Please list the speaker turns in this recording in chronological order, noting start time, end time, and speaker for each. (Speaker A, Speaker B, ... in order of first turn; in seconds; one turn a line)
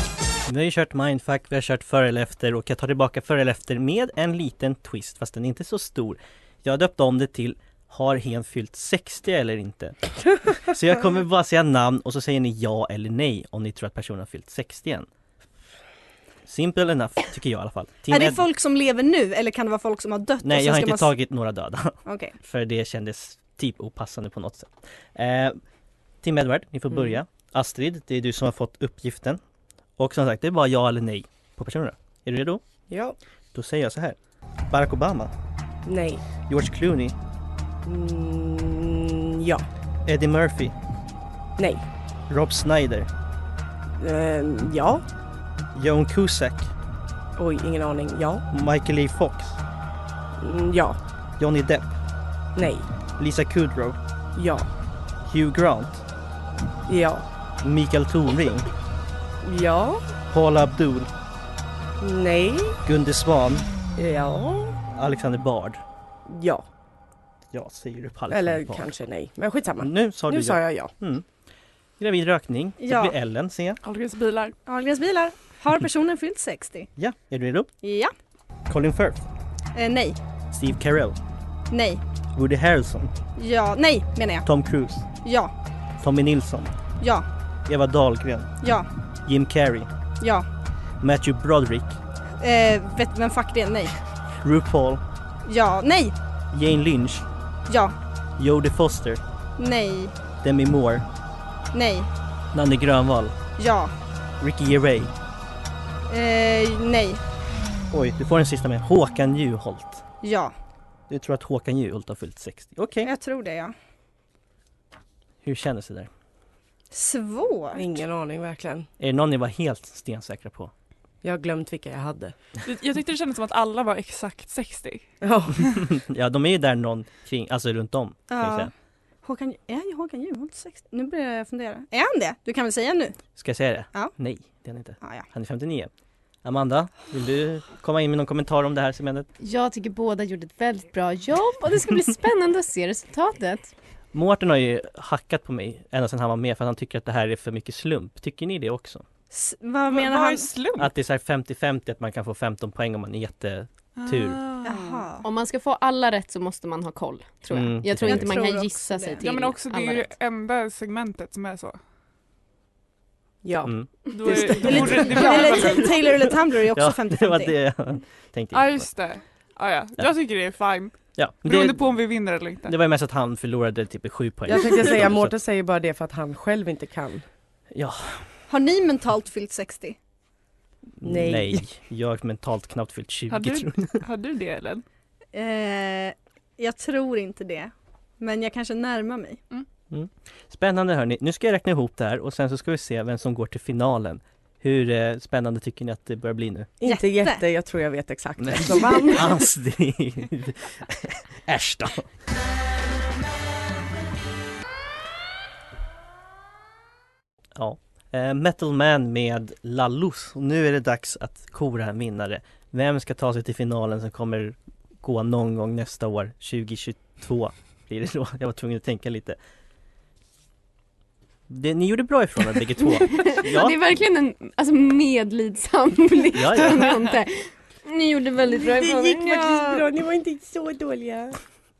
Speaker A: 0.5-9.9
Speaker A: 10.5-15.1
Speaker A: 16.5-18.4
Speaker B: 18.1-21.1
Speaker A: 20.4-25.6
Speaker B: 22.1-22.4
Speaker A: 26.2-29.4
Speaker A: 30.0-32.6
Speaker C: 32.9-33.2
Speaker A: 33.5-34.2
Speaker A: 34.7-35.3
Speaker C: 35.9-36.2
Speaker A: 36.5-37.2
Speaker C: 37.9-39.7
Speaker A: 40.1-40.8
Speaker C: 41.6-41.9
Speaker A: 42.3-43.1
Speaker C: 44.0-45.0
Speaker A: 45.7-46.7
Speaker C: 47.4-48.5
Speaker A: 48.5-49.6
Speaker C: 50.4-51.0
Speaker A: 51.4-51.9
Speaker C: 52.6-52.9
Speaker A: 53.2-54.0
Speaker C: 54.4-54.7
Speaker A: 55.3-56.0
Speaker C: 56.9-57.2
Speaker A: 57.6-58.7
Speaker C: 59.4-60.0
Speaker A: 60.3-61.1
Speaker C: 62.0-62.8
Speaker A: 62.9-63.7
Speaker C: 64.0-64.8
Speaker A: 64.9-65.8
Speaker C: 66.3-66.6
Speaker A: 67.5-68.9
Speaker C: 68.3-70.9
Speaker A: 69.8-71.3
Speaker A: 72.0-73.8
Speaker B: 72.8-73.1
Speaker D: 73.8-74.5
Speaker B: 74.7-76.9
Speaker A: 77.0-77.7
Speaker B: 77.8-78.1
Speaker A: 78.7-79.2
Speaker B: 79.8-80.2
Speaker A: 80.5-81.2
Speaker B: 81.7-82.0
Speaker A: 82.3-83.1
Speaker B: 83.4-84.5
Speaker A: 84.5-85.1
Speaker B: 85.2-85.5
Speaker A: 86.0-86.7
Speaker B: 87.0-87.2
Speaker A: 87.7-88.5
Speaker B: 88.6-88.9
Speaker A: 89.3-89.9
Speaker B: 90.2-90.5
Speaker A: 91.0-92.0
Speaker B: 92.4-94.0
Speaker A: 94.4-95.0
Speaker B: 95.5-96.1
Speaker A: 96.5-97.3
Speaker B: 97.7-98.0
Speaker A: 98.4-99.2
Speaker B: 99.6-100.1
Speaker A: 100.4-101.1
Speaker B: 101.7-102.1
Speaker A: 102.5-103.4
Speaker B: 103.6-103.9
Speaker A: 104.4-105.1
Speaker B: 106.1-107.2
Speaker A: 107.9-110.0
Speaker B: 110.2-110.5
Speaker A: 111.1-113.1
Speaker B: 113.0-113.7
Speaker A: 115.4-116.1
Speaker B: 116.9-117.9
Speaker C: 117.7-118.9
Speaker A: 119.0-120.7
Speaker C: 121.2-122.3
Speaker D: 122.6-125.1
Speaker C: 125.2-125.7
Speaker A: 125.7-128.7
Speaker B: 128.3-128.7
Speaker B: 129.2-133.2
Speaker A: 133.4-135.9
Speaker B: 135.0-135.3
Speaker A: 136.4-139.3
Speaker E: 139.4-143.7
Speaker A: 144.1-149.1
Speaker B: 149.3-150.5
Speaker D: 149.9-150.9
Speaker A: 150.8-154.4
Speaker D: 154.0-155.1
Speaker B: 154.6-155.2
Speaker E: 155.2-160.1
Speaker A: 157.5-158.4
Speaker B: 158.0-159.2
Speaker D: 159.2-161.8
Speaker C: 163.4-165.9
Speaker A: 163.6-163.9
Speaker D: 164.1-166.0
Speaker B: 164.3-167.5
Speaker A: 166.7-168.9
Speaker D: 168.5-172.8
Speaker A: 171.2-172.0
Speaker A: 172.6-175.3
Speaker C: 174.5-177.2
Speaker A: 177.7-178.3
Speaker B: 178.5-180.0
Speaker A: 181.0-184.0
Speaker C: 181.0-181.6
Speaker D: 183.3-184.8
Speaker B: 185.3-189.4
Speaker A: 189.9-196.7
Speaker C: 196.8-199.3
Speaker B: 196.8-197.4
Speaker A: 198.4-202.1
Speaker A: 207.6-219.4
Speaker A: 221.5-223.8
Speaker E: 222.8-229.8
Speaker A: 226.3-227.0
Speaker C: 228.4-231.4